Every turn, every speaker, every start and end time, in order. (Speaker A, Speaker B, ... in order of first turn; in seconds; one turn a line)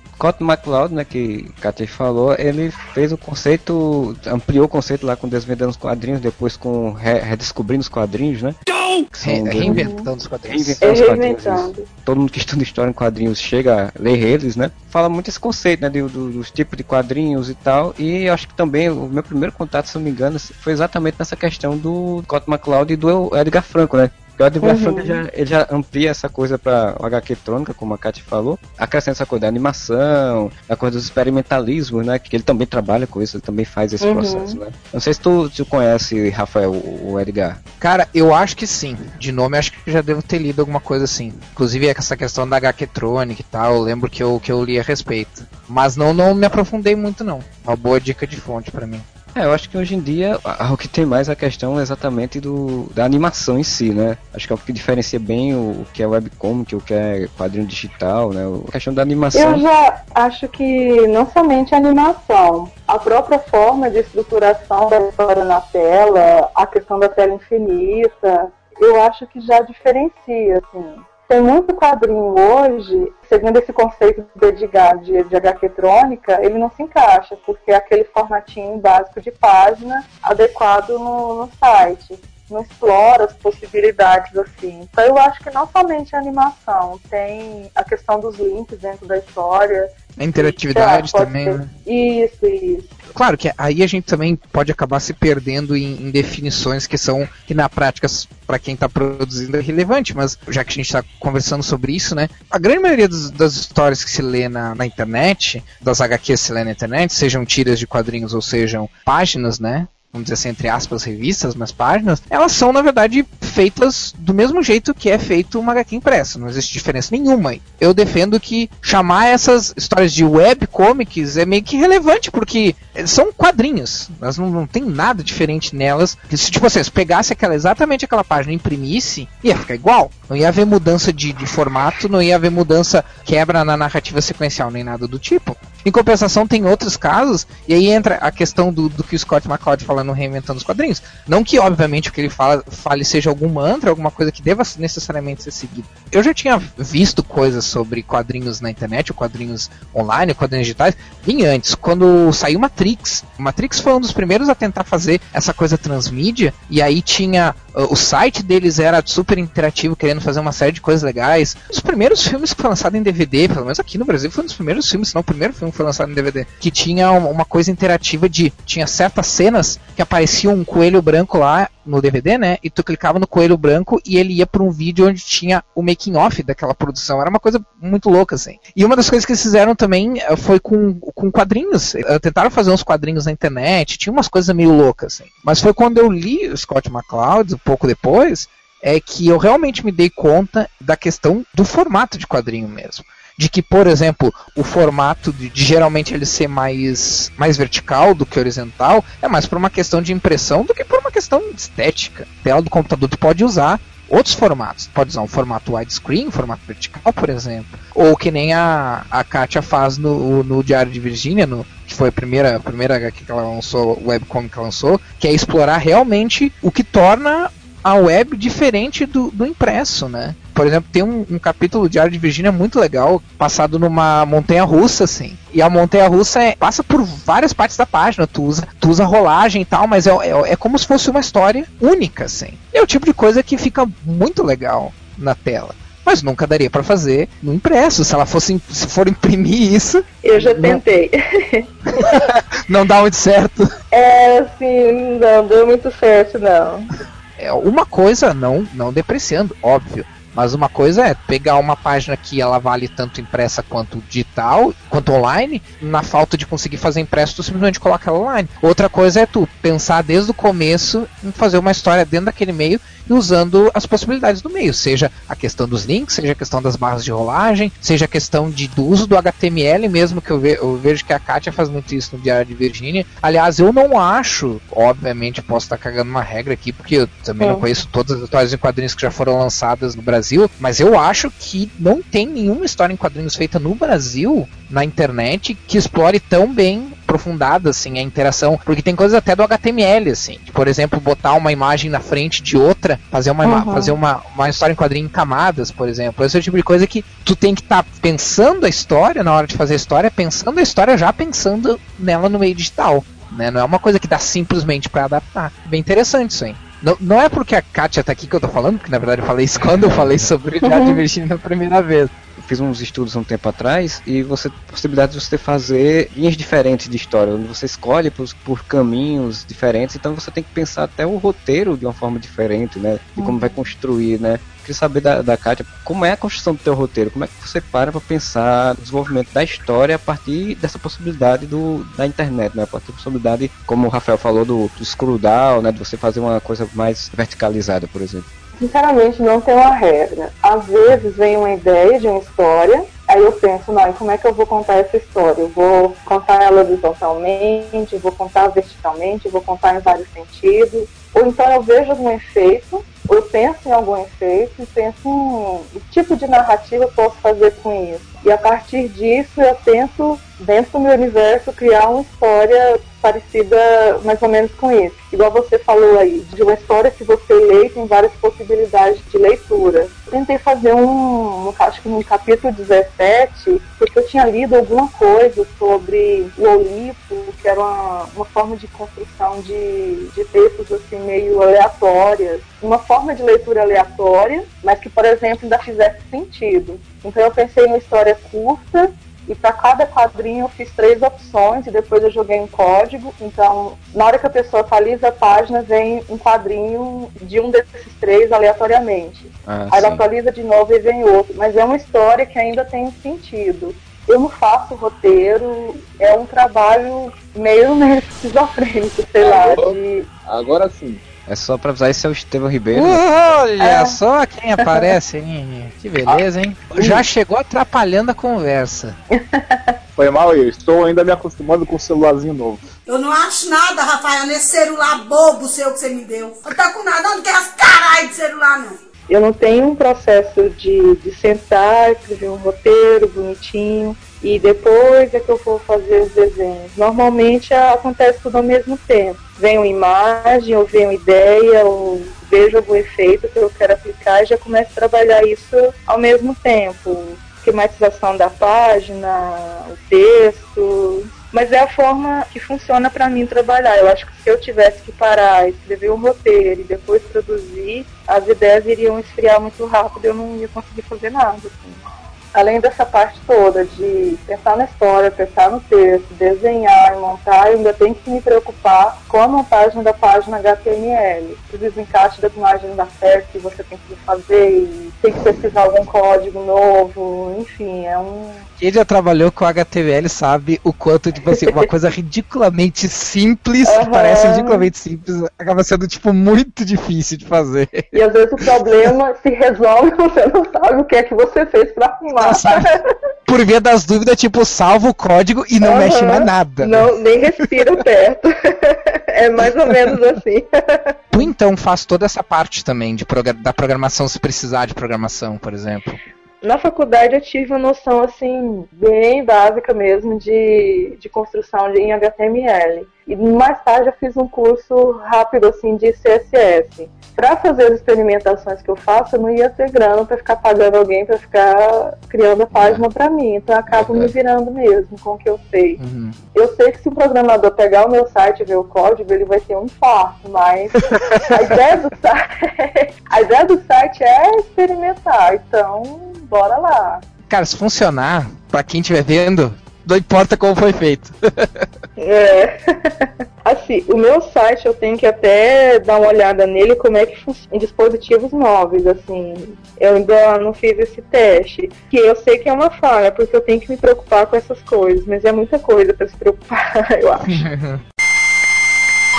Speaker A: 0.2-8.6
Speaker B: 9.1-10.8
Speaker A: 9.2-9.9
Speaker C: 9.6-10.1
Speaker A: 10.5-37.6
Speaker C: 10.8-11.9
Speaker C: 24.6-25.2
Speaker C: 34.0-34.6
Speaker B: 37.8-49.0
Speaker A: 49.3-59.6
Speaker C: 59.3-92.9
Speaker B: 90.2-91.7
Speaker B: 93.1-240.8
Speaker C: 240.2-241.7
Speaker B: 241.9-243.7
Speaker C: 243.9-246.9
Speaker B: 247.4-312.1
Speaker C: 277.4-277.6
Speaker C: 293.4-294.0
Speaker C: 310.6-311.0
Speaker A: 312.4-338.3
Speaker C: 323.2-323.5
Speaker C: 338.6-410.1
Speaker A: 399.4-400.0
Speaker D: 409.2-411.0
Speaker A: 411.3-413.0
Speaker B: 412.7-419.0
Speaker C: 413.6-414.0
Speaker C: 414.6-414.9
Speaker C: 419.1-419.8
Speaker D: 419.9-422.6
Speaker E: 422.9-428.8
Speaker C: 429.1-461.8
Speaker C: 462.3-478.4
Speaker B: 478.6-487.9
Speaker C: 481.3-481.6
Speaker C: 483.6-484.7
Speaker C: 487.9-492.9
Speaker B: 492.2-492.7
Speaker B: 493.3-496.9
Speaker C: 495.6-501.3
Speaker B: 501.1-506.0
Speaker C: 506.4-525.8
Speaker A: 522.5-522.8
Speaker A: 523.7-524.1
Speaker B: 525.8-526.2
Speaker C: 526.3-537.0
Speaker B: 530.9-531.3
Speaker B: 537.3-541.6
Speaker C: 542.0-557.5
Speaker B: 557.3-557.8